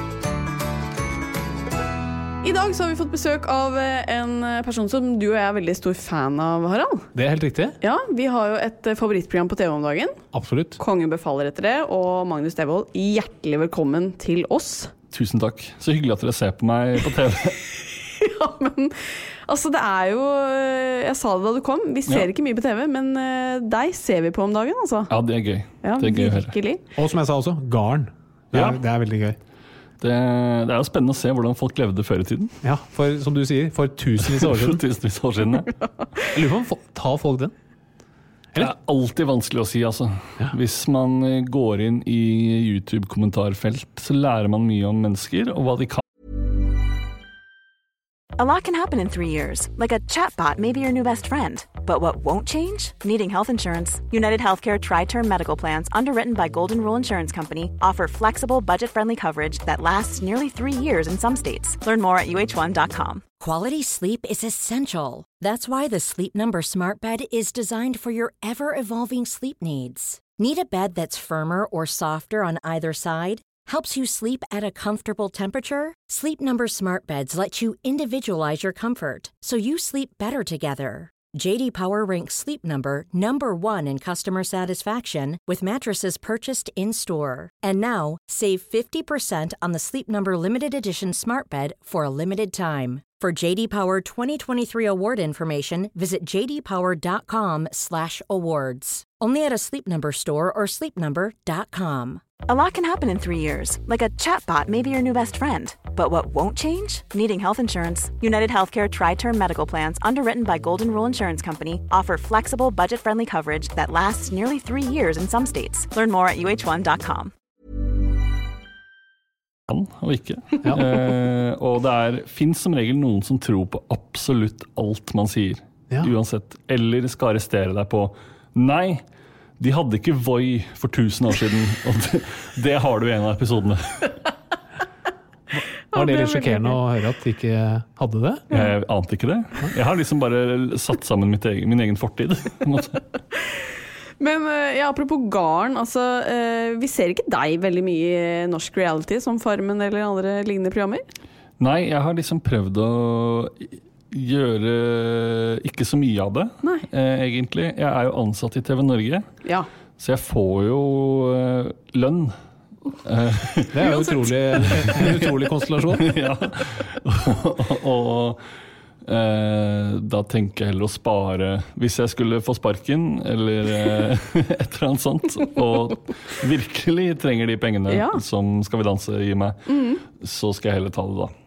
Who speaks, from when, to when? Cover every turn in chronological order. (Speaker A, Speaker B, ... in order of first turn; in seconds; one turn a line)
Speaker A: 2.4-7.1
Speaker B: 7.1-7.8
Speaker A: 7.8-10.2
Speaker B: 10.3-10.8
Speaker A: 10.8-14.9
Speaker C: 15.1-17.6
Speaker A: 18.2-25.1
Speaker C: 25.1-26.5
Speaker A: 25.8-26.8
Speaker B: 27.0-29.4
Speaker C: 28.5-28.8
Speaker C: 30.0-32.5
Speaker B: 32.6-34.8
Speaker C: 34.2-35.7
Speaker B: 36.3-37.5
Speaker C: 38.6-46.0
Speaker D: 48.4-63.2
Speaker E: 63.4-102.2
Speaker D: 102.5-117.3
Speaker C: 119.7-129.0
Speaker C: 129.6-134.1
Speaker B: 135.5-138.5
Speaker A: 135.9-136.8
Speaker C: 138.5-143.0
Speaker A: 144.2-151.1
Speaker C: 151.6-159.3
Speaker C: 160.0-162.3
Speaker C: 163.0-163.9
Speaker B: 163.7-166.1
Speaker A: 163.8-164.3
Speaker C: 164.6-168.4
Speaker C: 169.1-181.3
Speaker A: 177.9-178.2
Speaker A: 179.7-180.0